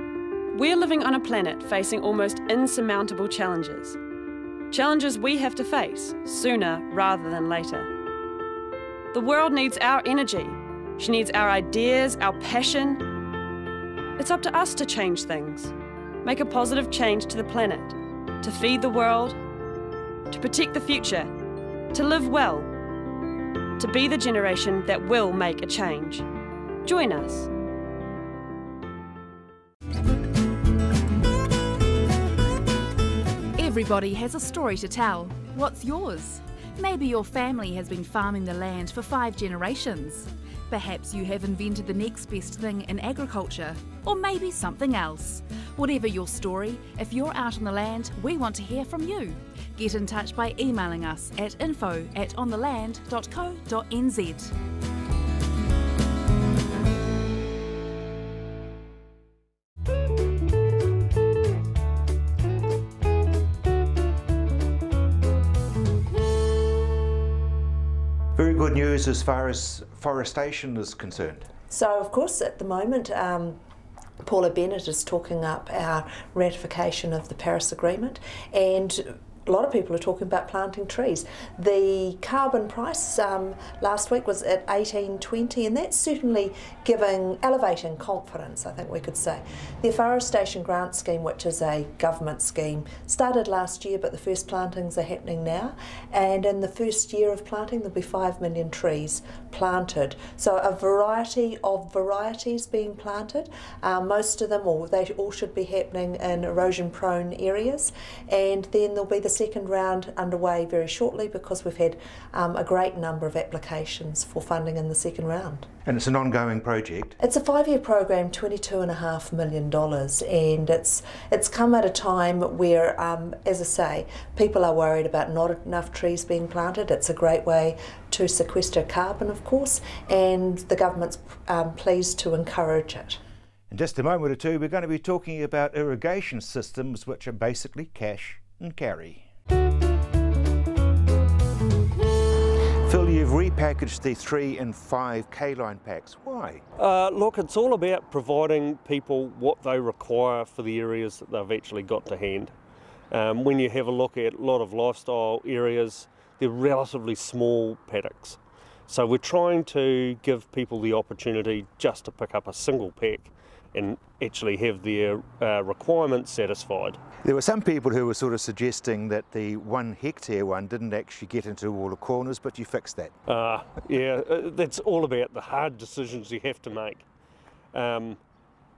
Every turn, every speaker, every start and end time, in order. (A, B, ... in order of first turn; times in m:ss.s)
0:00.5-0:04.0 A
0:04.7-0:07.9 A
0:09.1-0:13.0 A
0:14.2-0:19.4 A
0:20.3-0:21.3 A
0:21.9-0:22.7 A
0:23.8-0:26.2 A
0:26.8-0:27.5 A
0:33.6-0:54.5 B
1:08.4-1:11.5 C
1:11.7-1:13.6 D
1:14.2-1:55.7 D
1:55.8-1:57.2 C
1:57.2-2:13.2 D
2:13.7-2:19.3 C
2:22.8-2:26.6 C
2:26.8-2:32.5 E
2:33.1-2:47.0 E
2:47.2-2:53.1 C
2:53.3-2:57.0 E
2:57.7-2:58.2 E